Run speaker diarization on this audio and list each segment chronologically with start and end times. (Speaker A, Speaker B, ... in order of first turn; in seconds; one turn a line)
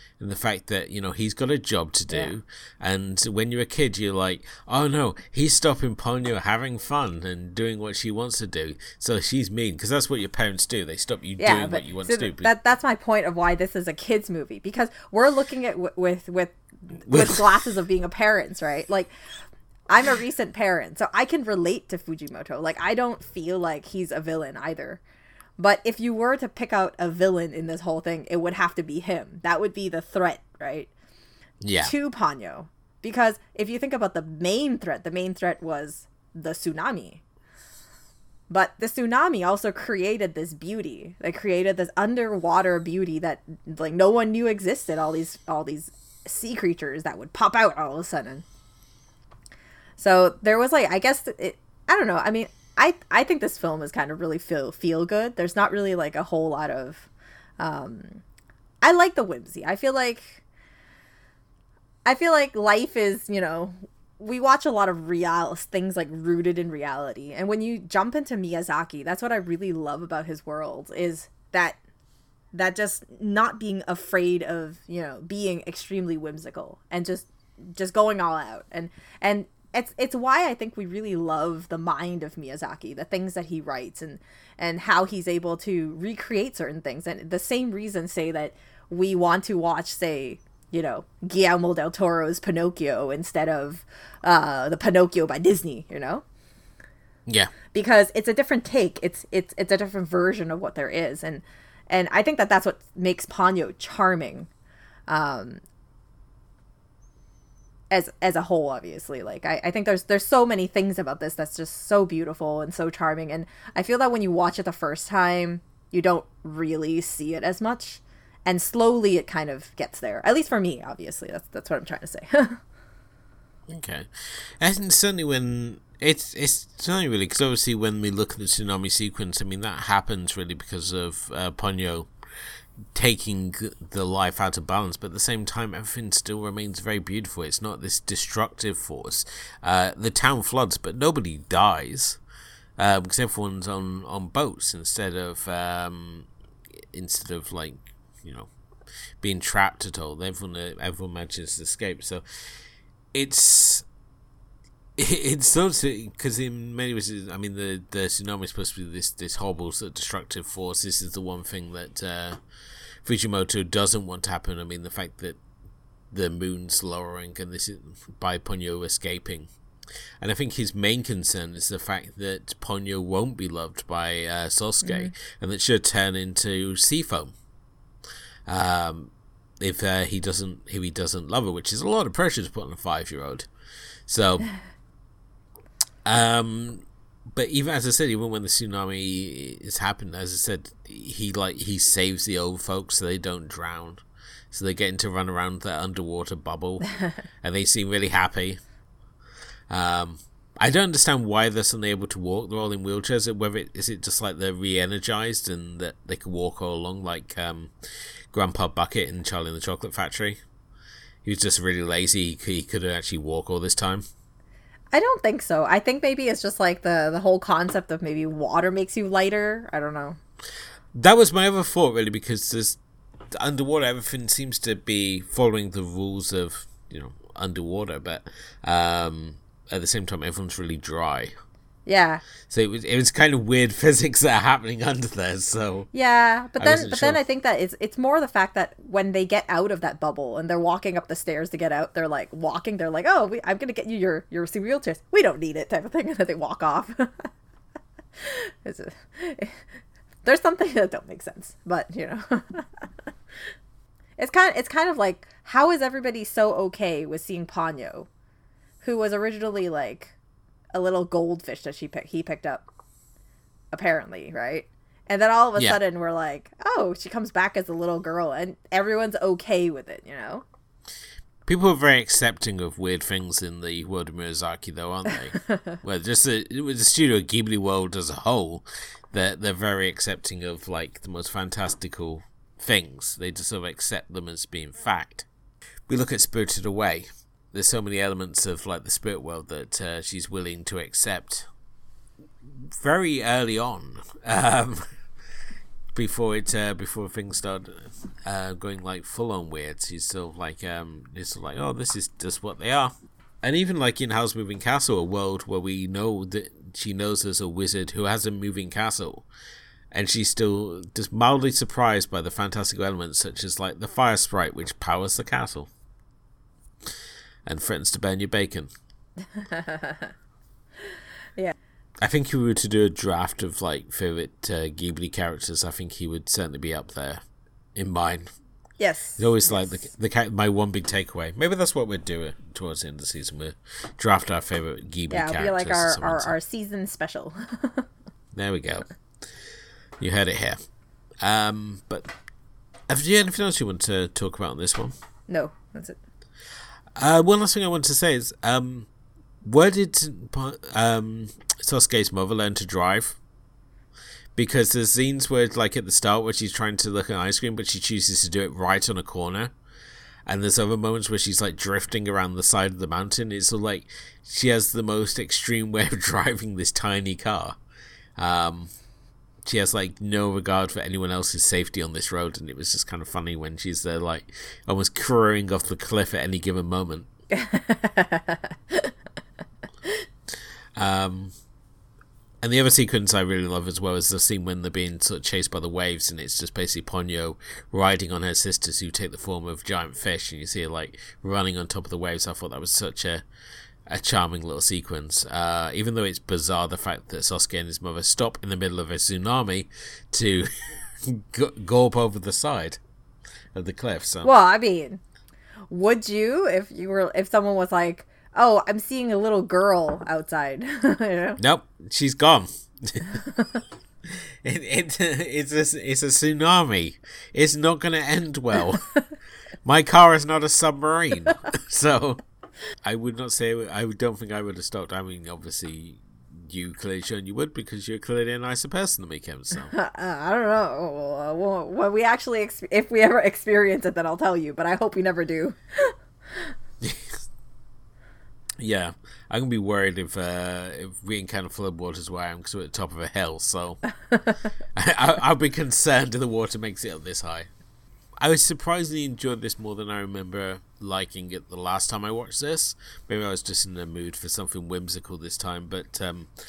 Speaker A: 0.2-12.5
Speaker B: 11.4-19.1
Speaker A: 17.1-17.4
Speaker B: 19.9-25.0
Speaker B: 25.6-30.9
Speaker A: 31.6-31.9
Speaker B: 31.8-37.2
Speaker B: 38.5-48.4
Speaker B: 50.0-58.2
Speaker B: 58.8-60.4
Speaker B: 62.0-71.8
Speaker B: 72.5-96.2
Speaker A: 97.2-97.5
Speaker B: 97.7-104.5
Speaker B: 105.1-105.6
Speaker B: 107.9-122.6
Speaker A: 123.7-132.1
Speaker A: 132.9-142.2
Speaker A: 142.8-148.5
Speaker A: 149.2-152.2
Speaker A: 153.1-153.8
Speaker A: 155.0-162.4
Speaker A: 163.0-165.4
Speaker A: 166.1-169.5
Speaker A: 170.2-177.3
Speaker B: 174.8-175.1
Speaker A: 178.4-183.5
Speaker A: 184.1-184.5
Speaker A: 186.0-198.6
Speaker A: 199.7-207.7
Speaker A: 208.3-210.4
Speaker A: 211.2-214.0
Speaker B: 214.9-220.2
Speaker A: 220.9-222.8
Speaker A: 223.3-231.3
Speaker B: 231.8-232.2
Speaker A: 232.5-235.9
Speaker B: 235.9-247.3
Speaker A: 236.6-237.2
Speaker B: 248.2-249.6
Speaker B: 250.2-252.8
Speaker B: 254.2-258.1
Speaker B: 258.8-260.1
Speaker B: 260.7-262.7
Speaker B: 263.7-270.4
Speaker A: 271.4-285.3
Speaker A: 285.9-291.5
Speaker A: 292.4-294.8
Speaker A: 295.9-309.2
Speaker A: 309.9-315.7
Speaker A: 317.4-318.7
Speaker B: 319.4-320.1
Speaker A: 322.0-327.2
Speaker A: 327.7-328.3
Speaker B: 328.8-329.7
Speaker A: 329.2-336.3
Speaker B: 335.1-337.9
Speaker A: 338.3-338.9
Speaker A: 340.0-340.6
Speaker A: 341.2-342.1
Speaker A: 342.9-344.9
Speaker B: 345.3-346.0
Speaker A: 346.9-348.9
Speaker A: 349.4-353.2
Speaker A: 354.4-359.5
Speaker A: 360.2-367.6
Speaker A: 368.2-368.7
Speaker A: 369.4-377.1
Speaker B: 377.3-378.9
Speaker A: 380.8-381.3
Speaker A: 382.4-393.2
Speaker A: 393.9-402.8
Speaker A: 403.5-404.3
Speaker B: 404.2-405.0
Speaker B: 405.7-411.4
Speaker A: 411.4-413.3
Speaker A: 414.1-418.8
Speaker A: 419.6-422.2
Speaker A: 422.8-429.7
Speaker B: 429.7-436.5
Speaker A: 436.8-437.2
Speaker A: 438.6-443.8
Speaker A: 444.8-447.5
Speaker A: 448.2-456.3